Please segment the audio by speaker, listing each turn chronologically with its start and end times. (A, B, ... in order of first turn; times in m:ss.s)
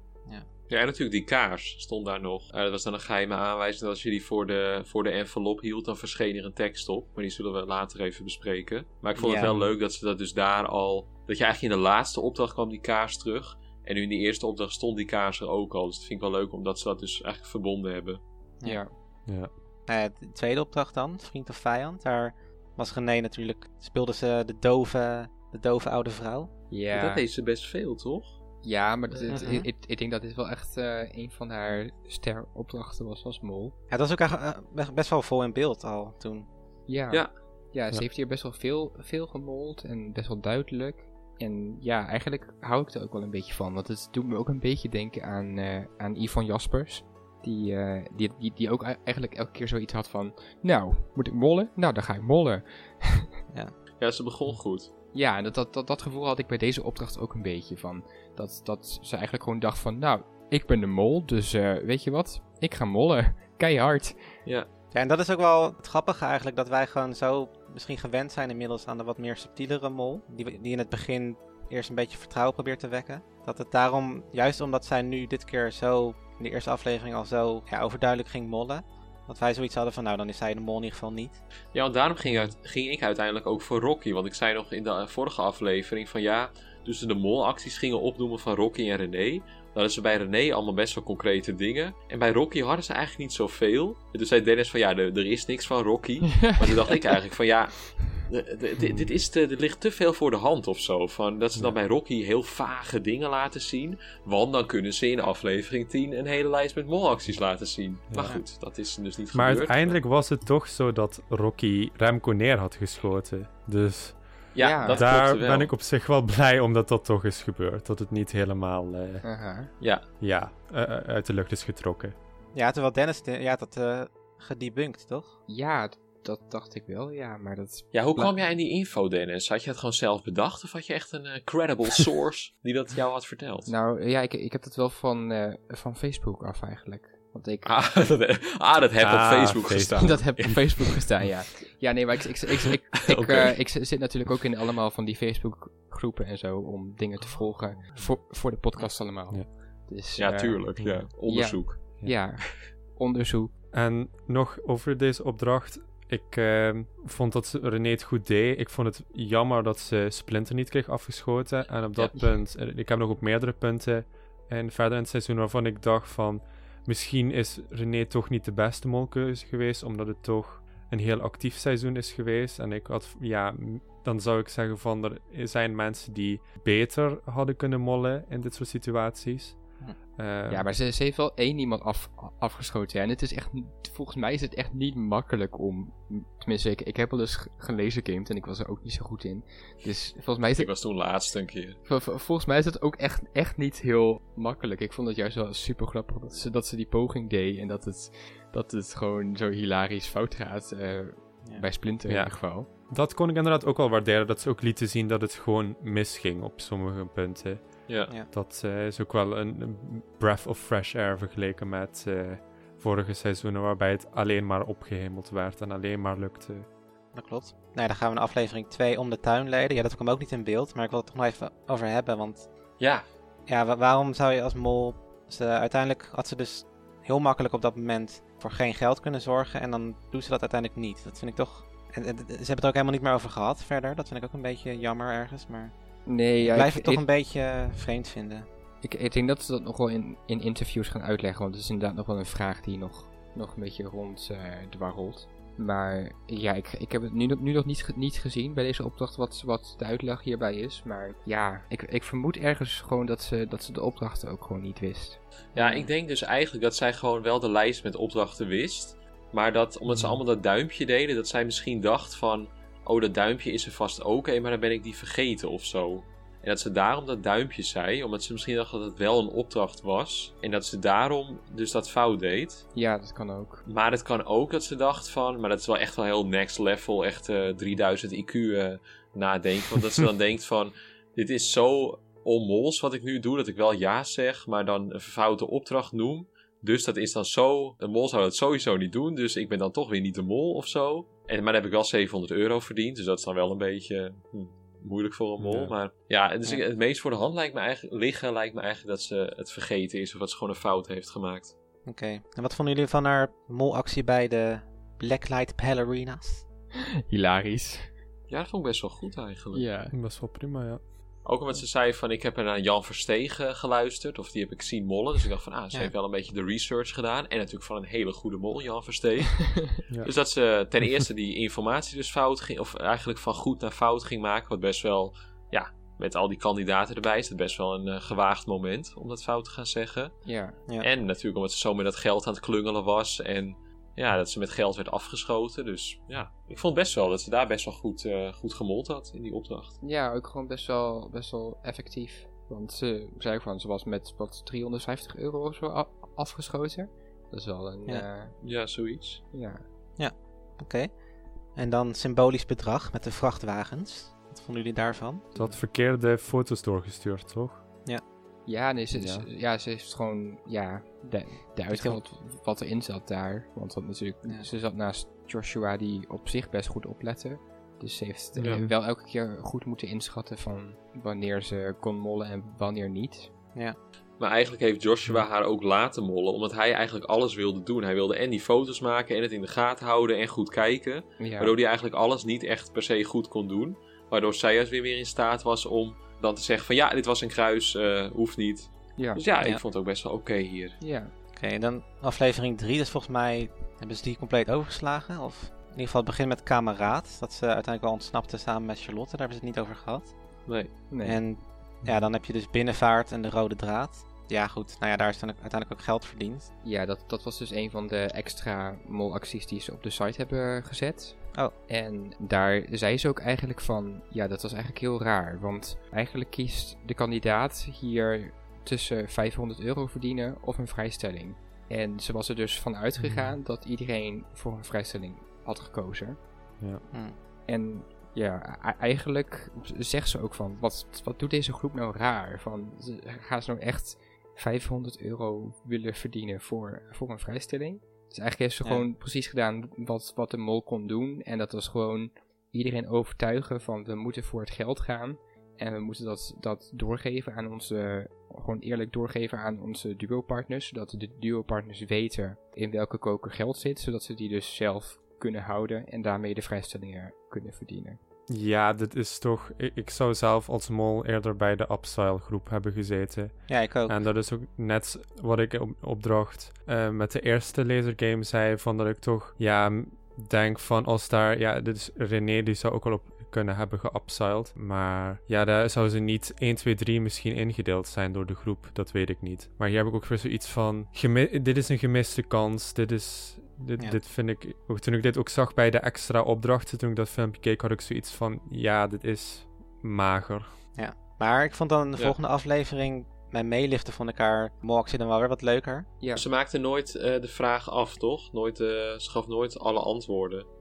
0:00.7-0:18.2 A
0:09.2-0:09.6 B
0:09.4-0:09.7 C
0:18.6-0:18.9 C
0:19.9-0:26.6 B
0:26.7-0:27.2 C
0:26.9-0:28.4 A
0:28.6-0:33.8 C
0:29.1-0:29.6 A
0:29.3-0:29.7 B
0:33.9-0:36.5 B
0:36.9-0:53.3 C
0:54.0-0:54.9 A
0:55.1-1:04.4 C
1:04.9-1:21.4 B
1:21.7-1:50.0 A
1:38.8-1:39.1 D
1:48.1-1:48.4 D
1:49.3-1:59.3 D
1:54.5-1:55.7 A
1:54.6-1:55.0 C
1:59.2-1:59.7 C
1:59.8-2:00.1 A
2:00.2-2:02.2 D
2:02.5-2:05.4 B
2:05.5-2:08.4 C
2:07.9-2:13.7 A
2:13.7-2:17.7 C
2:17.6-2:21.3 A
2:19.0-2:20.5 D
2:20.0-2:33.5 C
2:23.0-2:23.5 A
2:28.7-2:29.0 B
2:30.2-2:32.0 A
2:30.8-2:31.1 D
2:33.7-3:00.7 D
3:00.5-3:10.7 C
3:10.6-3:11.8 A
3:11.8-3:22.7 C
3:22.1-3:36.7 D
3:27.9-3:28.1 A
3:37.1-3:42.5 B
3:42.8-3:43.1 A
3:43.5-3:55.8 B
3:56.1-3:57.1 C
3:56.4-3:58.5 B
3:58.8-4:15.8 C
4:15.5-4:32.7 A
4:15.6-4:15.9 B
4:19.9-4:20.2 D
4:32.8-4:33.6 C
4:33.7-5:01.6 A
4:55.4-4:55.8 D
5:01.8-5:06.4 B
5:07.1-5:08.0 C
5:08.3-5:09.7 A
5:09.5-5:10.0 C
5:09.9-5:10.9 D
5:11.2-5:39.8 A
5:30.2-5:30.6 C
5:39.8-5:48.6 C
5:48.4-5:49.3 A
5:49.3-5:49.7 C
5:50.0-5:55.4 B
5:55.3-5:57.6 D
5:58.4-6:13.3 C
5:58.9-5:59.3 D
6:01.7-6:02.0 B
6:08.4-6:08.6 A
6:08.4-6:08.7 D
6:14.2-6:30.8 A
6:21.2-6:21.5 C
6:29.0-6:29.2 C
6:30.8-6:31.1 C
6:31.3-6:46.5 B
6:40.5-6:40.7 A
6:40.9-6:41.2 C
6:46.6-7:06.3 C
7:03.0-7:03.3 D
7:06.9-7:07.2 B
7:07.5-7:38.0 C
7:38.3-8:10.6 D
7:43.5-7:44.0 B
8:10.8-8:15.9 B
8:16.0-8:16.3 C
8:16.2-8:20.5 A